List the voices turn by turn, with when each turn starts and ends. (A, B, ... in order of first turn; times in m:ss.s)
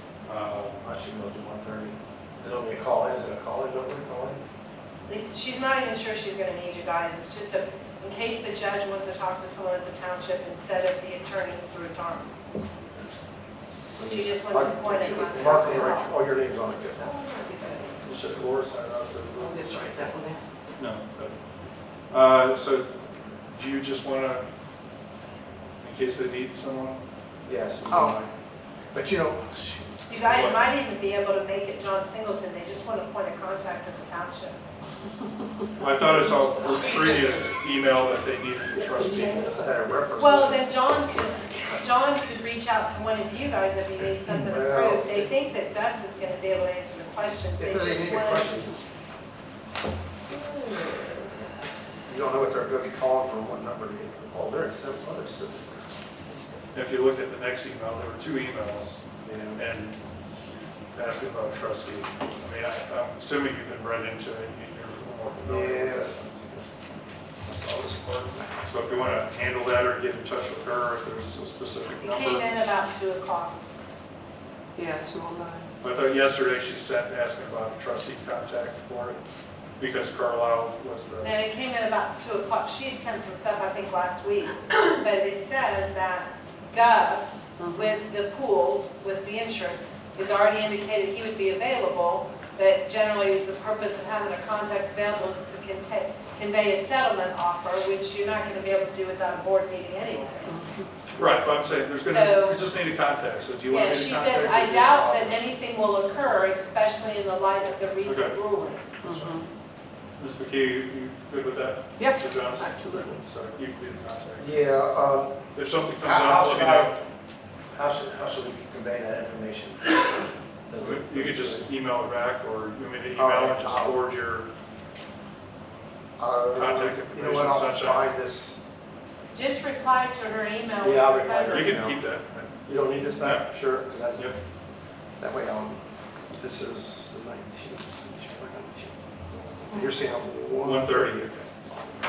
0:00.3-0:00.8 A
0:00.8-0:04.4 B
0:05.1-0:12.3 C
0:14.0-0:17.1 B
0:14.0-0:16.2 C
0:17.0-0:18.2 D
0:18.0-0:19.6 A
0:19.4-0:20.4 D
0:20.8-0:21.3 A
0:22.1-0:22.9 A
0:23.5-0:24.4 A
0:25.8-0:27.0 A
0:27.5-0:28.3 B
0:27.9-0:28.2 D
0:28.9-0:30.1 B
0:30.1-0:34.6 C
0:30.2-0:30.6 A
0:35.8-0:39.6 A
0:38.9-0:39.7 D
0:39.6-0:40.7 B
0:40.2-0:48.6 C
0:44.2-0:45.3 B
0:47.6-0:48.7 B
0:50.3-0:51.4 D
0:52.0-0:55.9 B
0:56.7-0:59.0 A
0:59.2-0:59.6 B
0:59.6-1:00.0 A
1:01.0-1:06.1 A
1:05.3-1:06.8 B
1:07.4-1:09.0 B
1:08.6-1:12.6 A
1:12.0-1:13.6 C
1:14.8-1:15.7 D
1:15.8-1:19.2 A
1:19.8-1:21.4 A
1:21.2-1:40.5 C
1:27.6-1:28.0 D
1:40.5-1:40.9 D
1:41.2-1:45.3 A
1:42.0-1:42.6 C
1:43.6-1:49.0 C
1:48.0-1:48.4 A
1:49.0-1:49.5 D
1:50.2-1:54.6 A
1:52.0-1:53.2 D
1:54.4-1:55.4 B
1:55.5-1:57.0 A
1:56.0-1:56.9 B
1:57.7-2:00.2 B
2:00.7-2:01.7 B
2:00.7-2:04.5 A
2:03.2-2:04.0 B
2:06.2-2:08.6 B
2:06.5-2:08.1 A
2:09.3-2:11.9 C
2:10.8-2:12.0 B
2:11.4-2:13.5 A
2:12.7-2:14.3 B
2:15.2-2:15.8 B
2:16.4-2:19.0 B
2:19.5-2:21.5 B
2:20.6-2:21.4 A